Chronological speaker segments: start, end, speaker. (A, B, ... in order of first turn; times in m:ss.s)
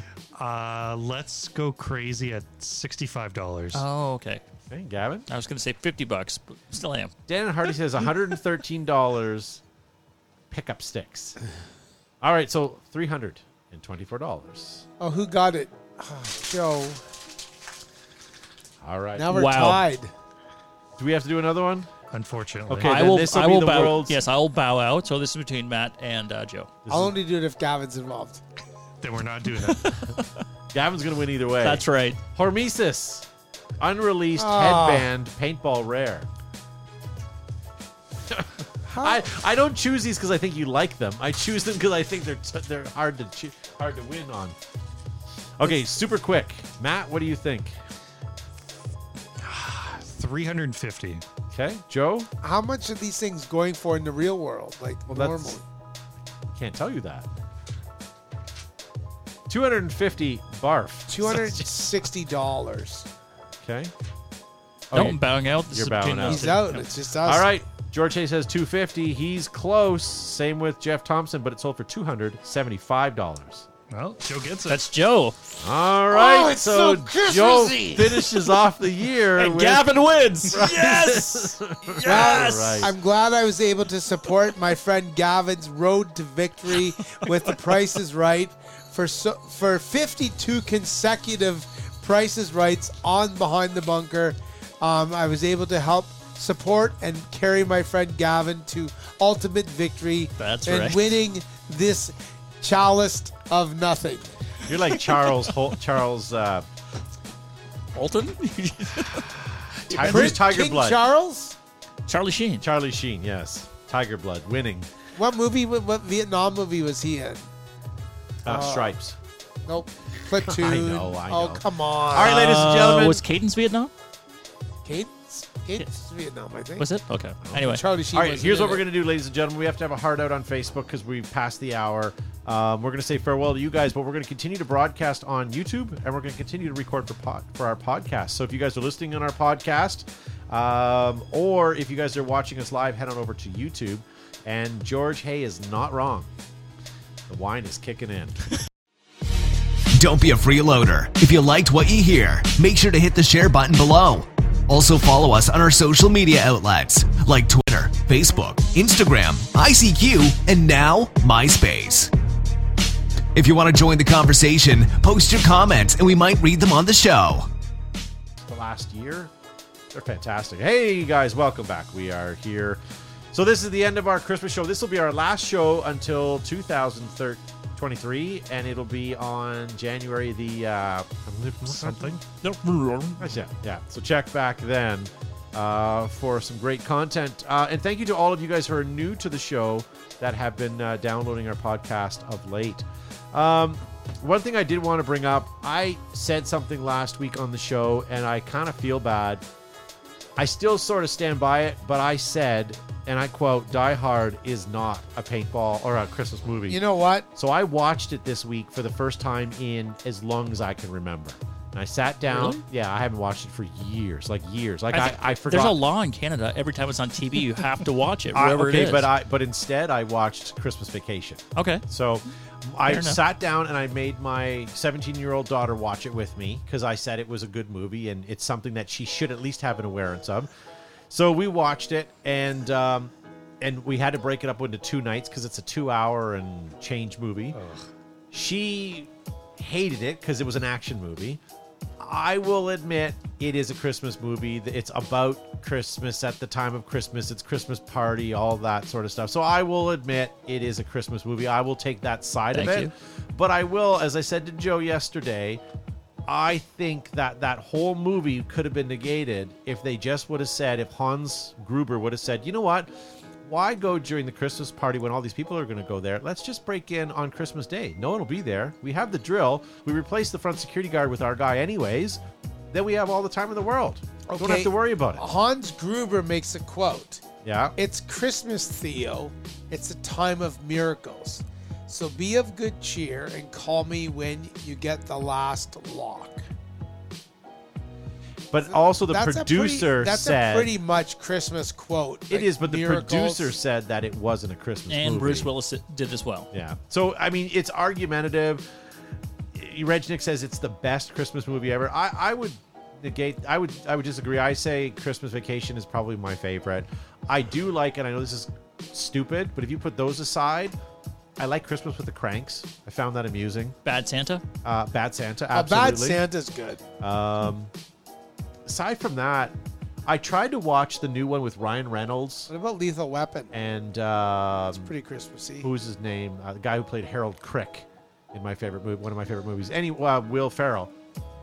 0:00.3-0:03.8 A
0:03.7-0:04.4 B
0:04.7-0:05.3 C
0:05.3-0:07.1 B
0:07.3-0:09.6 C
0:10.5-0:11.4 C
0:12.2-0:14.8 C
0:15.0-0:17.0 D
0:18.8-0:19.4 C
0:19.2-0:20.1 D
0:19.3-0:19.8 B
0:21.0-0:21.9 C
0:22.1-0:22.9 A
0:22.7-0:24.2 C
0:22.8-0:26.7 B
0:26.8-0:27.1 C
0:26.9-0:28.4 D
0:29.0-0:30.0 A
0:29.6-0:30.4 B
0:30.7-0:31.8 C
0:31.6-0:32.2 B
0:32.3-0:33.2 C
0:33.8-0:36.3 C
0:34.4-0:35.1 D
0:38.3-0:44.6 C
0:38.9-0:39.2 D
0:45.6-0:47.8 C
0:49.4-0:51.2 A
0:51.5-0:52.3 C
0:52.4-0:55.6 D
0:55.1-0:55.6 C
0:56.5-0:57.3 C
0:59.5-1:01.6 C
1:01.1-1:03.1 D
1:03.6-1:03.9 C
1:04.9-1:05.2 C
1:04.9-1:06.9 B
1:05.7-1:06.6 C
1:06.3-1:07.5 D
1:07.2-1:13.7 C
1:13.9-1:14.8 A
1:14.7-1:15.4 B
1:15.6-1:19.9 C
1:16.1-1:18.2 D
1:19.4-1:22.9 B
1:20.5-1:22.9 C
1:22.0-1:44.3 D
1:40.4-1:41.2 B
1:44.6-1:46.6 C
1:47.9-1:50.4 B
1:49.9-1:51.0 C
1:50.0-1:51.6 D
1:52.1-1:52.6 B
1:52.6-1:54.9 C
1:55.2-1:57.4 D
1:58.4-1:59.2 C
1:58.4-1:58.9 D
1:59.6-2:02.5 D
2:00.3-2:03.2 C
2:02.2-2:03.9 B
2:04.8-2:06.9 D
2:06.8-2:07.8 B
2:07.4-2:26.3 C
2:07.6-2:08.8 D
2:27.3-2:28.4 C
2:30.0-2:42.1 E
2:43.3-2:47.5 E
2:48.4-2:49.3 C
2:49.9-2:52.8 C
2:53.3-3:02.2 C
3:01.8-3:02.2 A
3:02.4-3:03.3 B
3:03.2-3:19.4 C
3:20.4-3:26.8 C
3:26.7-3:27.3 D
3:27.3-3:35.8 C
3:32.3-3:32.6 B
3:34.9-3:39.1 B
3:38.3-3:50.5 C
3:41.6-3:41.8 B
3:42.8-3:43.2 B
3:51.1-3:57.6 C
3:57.5-3:57.8 A
3:58.3-4:01.4 C
4:02.0-4:15.6 C
4:12.5-4:12.9 B
4:16.2-4:22.9 C
4:23.4-4:32.2 C
4:32.7-4:35.2 C
4:34.3-4:37.2 D
4:37.4-4:37.7 C
4:37.8-4:46.4 D
4:48.5-4:50.7 C
4:48.7-4:53.5 D
4:52.3-4:55.5 C
4:54.9-4:56.5 B
4:56.5-4:58.6 C
4:59.5-5:10.8 C
5:11.4-5:13.8 C
5:13.8-5:14.4 B
5:14.6-5:16.2 C
5:15.5-5:16.8 D
5:17.0-5:17.7 C
5:18.6-5:22.5 C
5:22.5-5:23.5 D
5:23.5-5:24.9 C
5:24.7-5:25.7 D
5:25.6-5:30.9 C